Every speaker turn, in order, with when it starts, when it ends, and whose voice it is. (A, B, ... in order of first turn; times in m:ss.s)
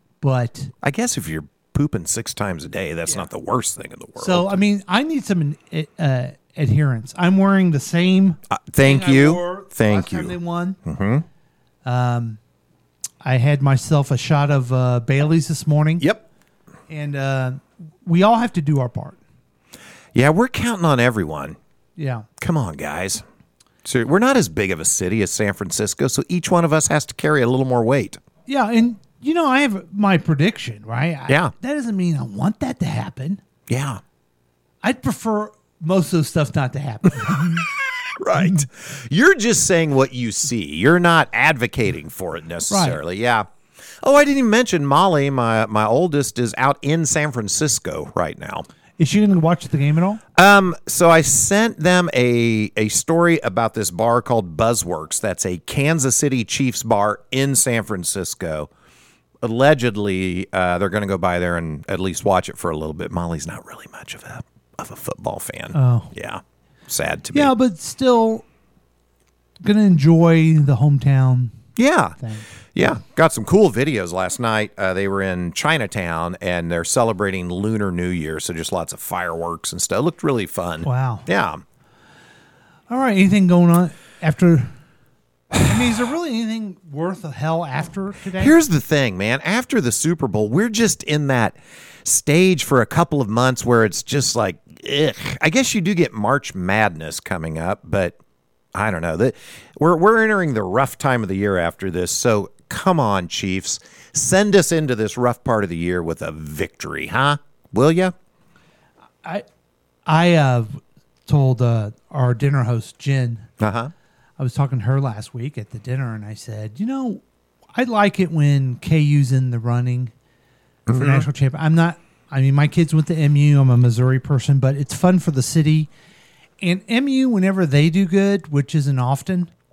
0:00.2-0:00.7 A
0:00.8-0:04.6 B
0:04.2-0:10.8 A
0:08.5-0:11.2 B
0:11.8-0:12.4 A
0:13.2-0:16.1 A
0:16.9-0:19.2 A
0:20.2-0:21.6 B
0:22.0-0:22.3 A
0:22.4-0:23.2 B
0:23.8-0:28.2 B
0:28.5-0:33.4 A
0:31.3-0:31.5 B
0:33.7-0:34.0 B
0:34.8-0:37.6 A
0:37.4-0:37.6 B
0:38.2-0:43.5 B
0:42.7-0:43.0 A
0:44.0-0:48.7 B
0:49.0-0:50.2 A
0:50.4-0:58.7 B
0:59.4-1:07.5 B
1:05.7-1:06.1 A
1:07.3-1:08.4 A
1:09.6-1:11.5 A
1:11.8-1:12.2 B
1:12.2-1:12.5 A
1:12.8-1:21.6 B
1:20.8-1:21.3 A
1:22.9-1:24.7 A
1:25.6-1:28.6 A
1:28.4-1:38.2 B
1:38.8-1:48.1 B
1:50.1-1:53.5 A
1:53.6-1:53.9 B
1:54.4-1:57.2 A
1:57.8-2:00.1 A
2:00.9-2:01.3 B
2:00.9-2:05.9 A
2:06.6-2:09.5 A